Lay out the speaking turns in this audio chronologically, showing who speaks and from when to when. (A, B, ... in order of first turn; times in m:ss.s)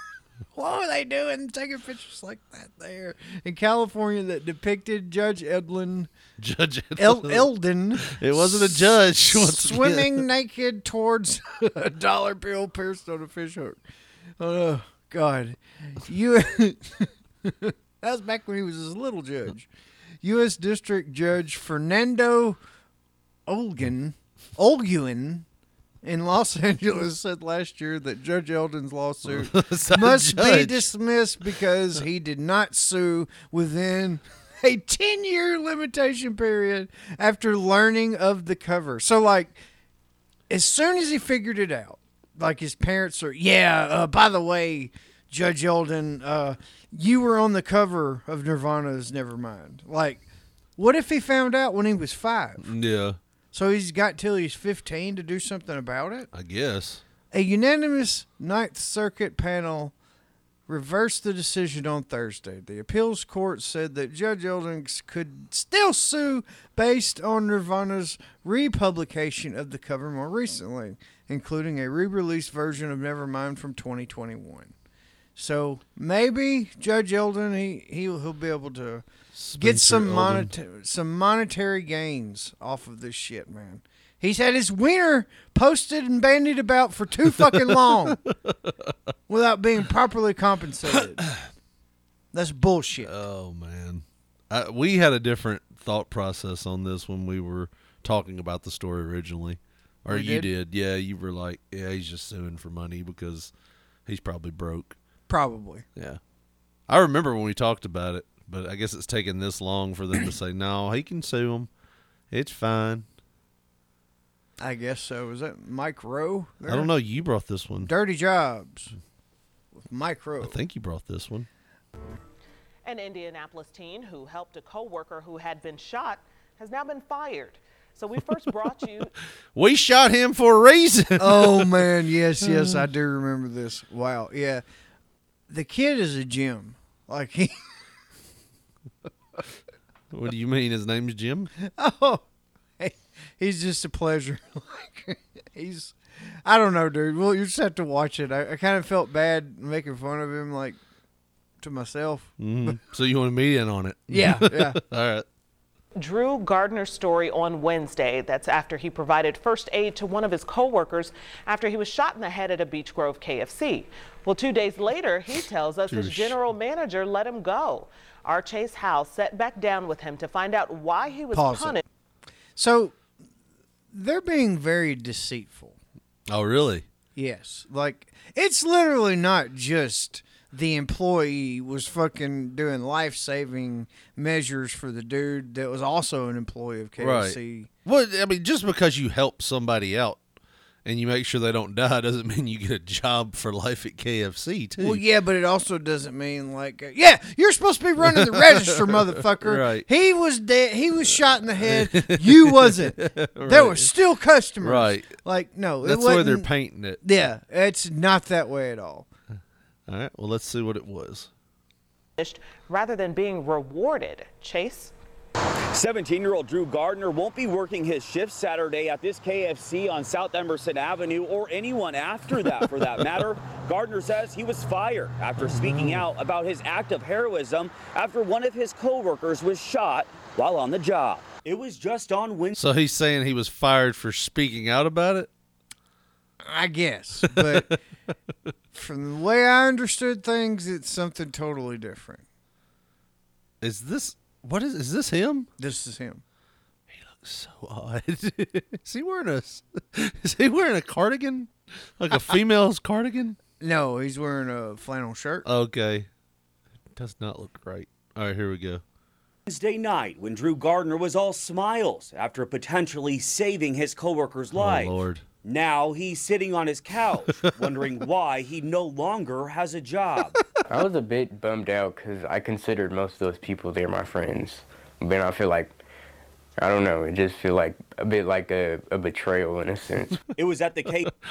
0:00.5-0:06.1 A
0:06.4-0:10.2 B
0:07.0-0:13.8 A
0:14.4-0:19.7 A
0:20.2-0:22.6 A
0:23.5-0:25.5 A
0:26.0-0:39.6 A
0:29.3-0:30.9 B
0:40.5-0:50.2 A
0:50.8-0:52.7 A
0:52.6-0:53.2 B
0:53.5-0:56.3 A
0:56.3-0:57.0 B
0:57.3-0:59.9 A
1:00.7-1:14.7 A
1:15.4-1:19.0 A
1:19.3-1:20.5 B
1:19.6-1:28.2 A
1:27.4-1:28.9 B
1:29.3-1:31.3 A
1:32.3-1:33.1 A
1:33.0-1:43.5 B
1:40.1-1:40.5 A
1:44.1-1:45.0 B
1:45.3-1:45.8 A
1:46.9-1:51.7 B
1:52.3-1:53.1 B
1:54.6-1:56.9 A
1:56.7-1:57.9 B
1:57.9-1:58.9 A
1:59.8-2:00.6 A
2:00.4-2:01.5 B
2:02.8-2:09.1 C
2:09.6-2:11.8 B
2:11.2-2:14.6 A
2:12.4-2:12.9 B
2:15.5-2:17.5 A
2:20.1-2:21.5 B
2:21.6-2:22.2 A
2:22.8-2:30.8 A
2:31.6-2:32.8 A
2:32.4-2:35.2 B
2:34.1-2:34.8 A
2:36.0-2:51.8 C
2:45.9-2:46.4 B
2:51.3-2:51.8 A
2:52.6-2:53.0 A
2:53.9-2:55.8 A
2:56.3-2:56.9 B
2:57.2-3:07.7 A
3:07.0-3:10.2 B
3:10.8-3:15.0 B
3:14.8-3:26.5 A
3:18.0-3:19.9 B
3:21.1-3:23.9 B
3:24.6-3:25.2 B
3:25.8-3:27.0 B
3:27.0-3:29.1 A
3:29.9-3:31.3 B
3:32.2-3:34.9 C
3:35.7-3:52.6 D
3:45.4-3:46.0 B
3:52.6-3:55.3 B
3:56.4-3:57.8 A
3:57.3-3:57.7 B
3:58.7-4:02.2 A
4:03.6-4:05.5 B
4:05.6-4:06.2 A
4:06.9-4:13.4 B
4:13.6-4:15.5 A
4:15.4-4:16.1 B
4:17.0-4:18.8 B
4:19.5-4:30.4 D
4:24.6-4:25.2 B
4:30.7-4:35.8 E
4:36.6-4:40.2 E
4:40.4-4:41.1 D